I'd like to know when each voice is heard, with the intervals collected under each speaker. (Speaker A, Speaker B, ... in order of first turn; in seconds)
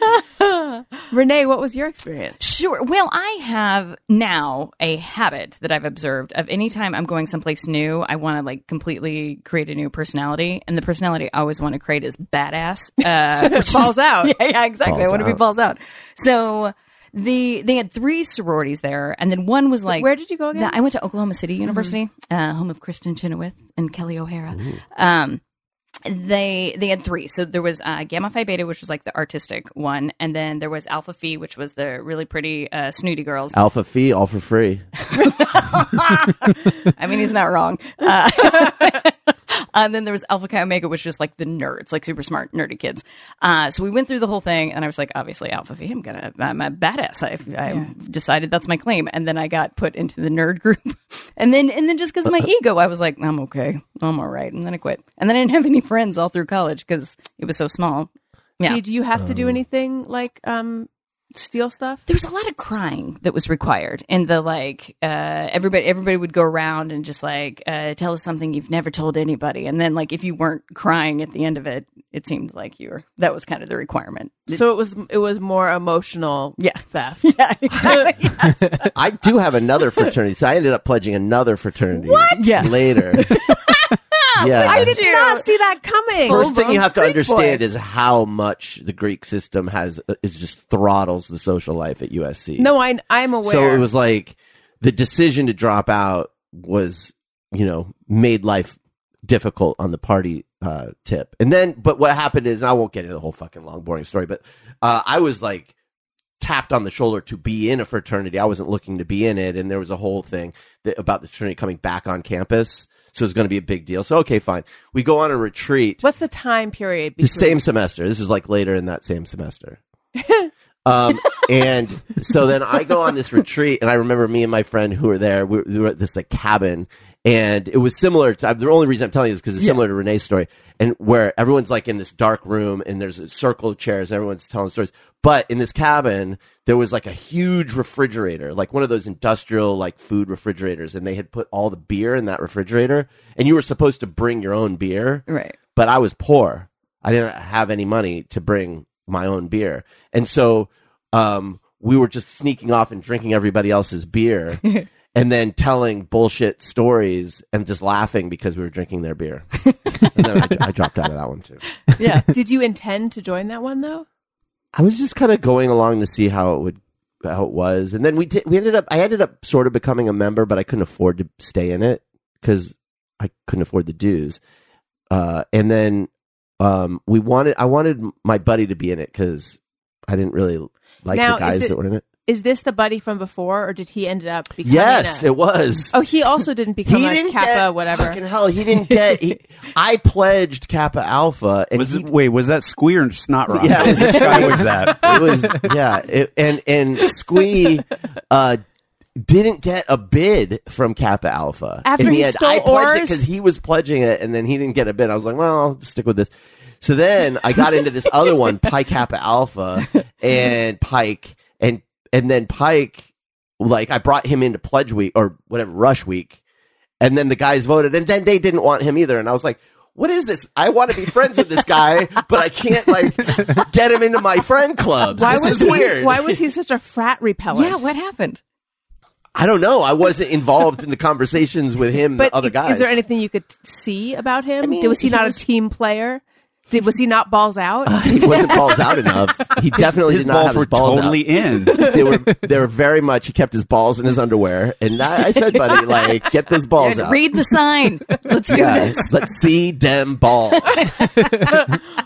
Speaker A: 0.4-0.8, 2.4-25.4, 26.0-33.5, 35.2-58.8, 62.1-74.6, 76.6-78.9, 82.4-85.5, 86.2-87.6, 145.3-145.6, 161.9-162.3, 227.5-228.4, 238.2-239.0, 246.8-249.1, 251.0-251.4
Speaker B: 1.1-2.4, 13.3-14.3, 19.9-20.8, 21.7-21.9, 58.6-62.0, 74.5-77.2, 77.8-78.1, 81.9-82.5, 84.6-87.0, 92.6-93.8, 116.0-117.6, 120.2-120.5, 162.3-164.1, 181.1-185.3, 185.9-188.2, 201.8-203.2, 225.2-227.8, 232.2-238.6, 251.3-251.8
Speaker C: 14.8-15.4, 33.5-34.9, 59.1-59.6, 78.9-83.3, 84.4-85.0, 86.2-92.7, 93.4-105.7, 106.4-116.0, 117.2-119.8, 120.8-161.8, 164.7-174.4, 175.1-182.0, 184.6-185.9, 186.8-192.1, 193.5-198.6, 199.2-213.1, 213.6-216.4, 217.0-226.4, 229.3-233.0, 234.6-235.3, 237.8-241.2, 241.7-247.2, 248.5-251.0
Speaker D: 191.8-195.6, 239.9-242.0